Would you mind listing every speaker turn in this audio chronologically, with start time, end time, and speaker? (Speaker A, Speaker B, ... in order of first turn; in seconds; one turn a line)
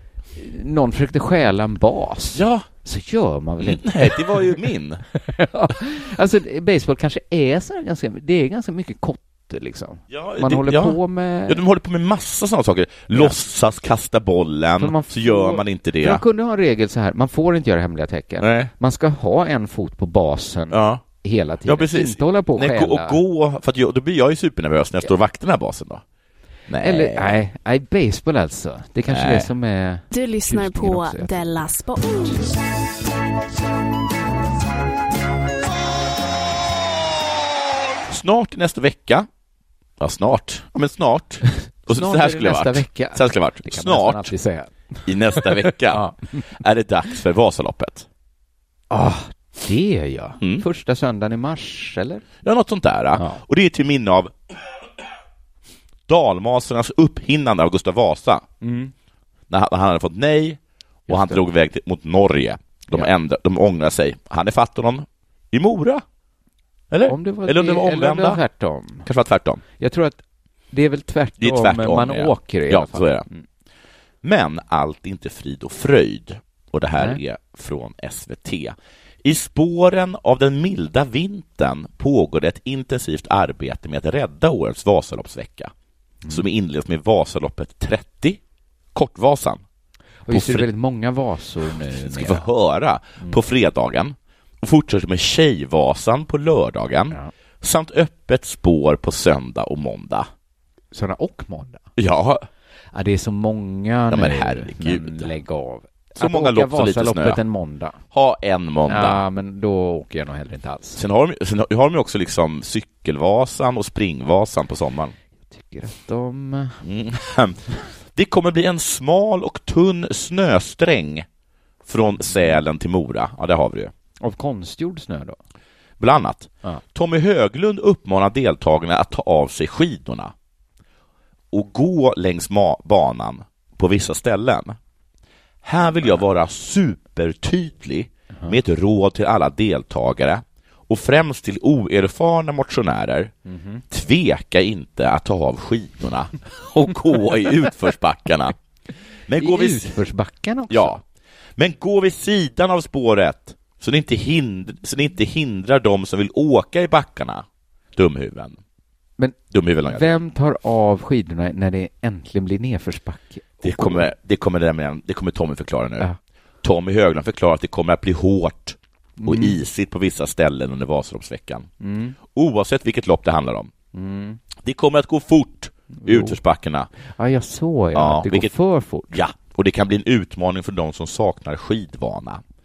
Speaker A: 0.3-4.6
Speaker B: 2.3-2.7
Speaker B: 3.6-5.0
Speaker A: 5.2-11.6
Speaker B: 10.1-16.2
Speaker A: 13.1-13.4
Speaker A: 14.8-23.2
Speaker B: 18.4-18.7
Speaker B: 20.7-21.0
Speaker B: 21.7-26.0
Speaker B: 26.7-27.3
Speaker A: 26.8-31.6
Speaker B: 29.1-29.5
Speaker C: 30.1-32.6
Speaker B: 38.1-39.3
Speaker B: 40.0-44.3
Speaker A: 41.5-46.2
Speaker B: 45.0-48.1
Speaker A: 48.9-52.3
Speaker B: 52.4-54.3
Speaker A: 53.1-53.4
Speaker B: 56.1-58.5
Speaker A: 58.6-58.9
Speaker B: 59.5-66.0
Speaker A: 61.1-61.4
Speaker B: 66.9-68.4
Speaker A: 67.1-69.1
Speaker B: 69.1-69.6
Speaker A: 69.8-73.4
Speaker B: 71.4-73.3
Speaker B: 74.2-85.7
Speaker B: 86.3-88.4
Speaker B: 88.9-89.6
Speaker A: 90.3-92.4
Speaker B: 90.3-90.7
Speaker B: 91.9-100.3
Speaker A: 100.9-101.9
Speaker B: 102.0-102.4
Speaker A: 102.9-108.0
Speaker B: 104.1-105.3
Speaker B: 106.2-107.4
Speaker B: 108.1-109.2
Speaker A: 108.9-111.0
Speaker B: 111.0-115.2
Speaker A: 115.5-116.8
Speaker B: 116.8-121.3
Speaker B: 121.8-123.9
Speaker A: 124.2-125.4
Speaker B: 126.0-130.3
Speaker B: 131.5-134.8
Speaker B: 135.6-143.3
Speaker A: 143.5-143.8
Speaker B: 143.9-148.6
Speaker B: 149.3-150.0
Speaker A: 149.4-151.0
Speaker B: 150.7-151.0
Speaker B: 151.6-158.6
Speaker B: 159.5-160.1
Speaker A: 159.9-164.1
Speaker B: 163.6-166.1
Speaker B: 166.6-171.7
Speaker A: 169.2-169.6
Speaker A: 171.8-172.2
Speaker B: 172.3-173.7
Speaker A: 173.9-174.4
Speaker B: 174.6-176.9
Speaker A: 176.0-176.4
Speaker A: 177.1-179.2
Speaker B: 177.9-178.5
Speaker B: 179.1-182.4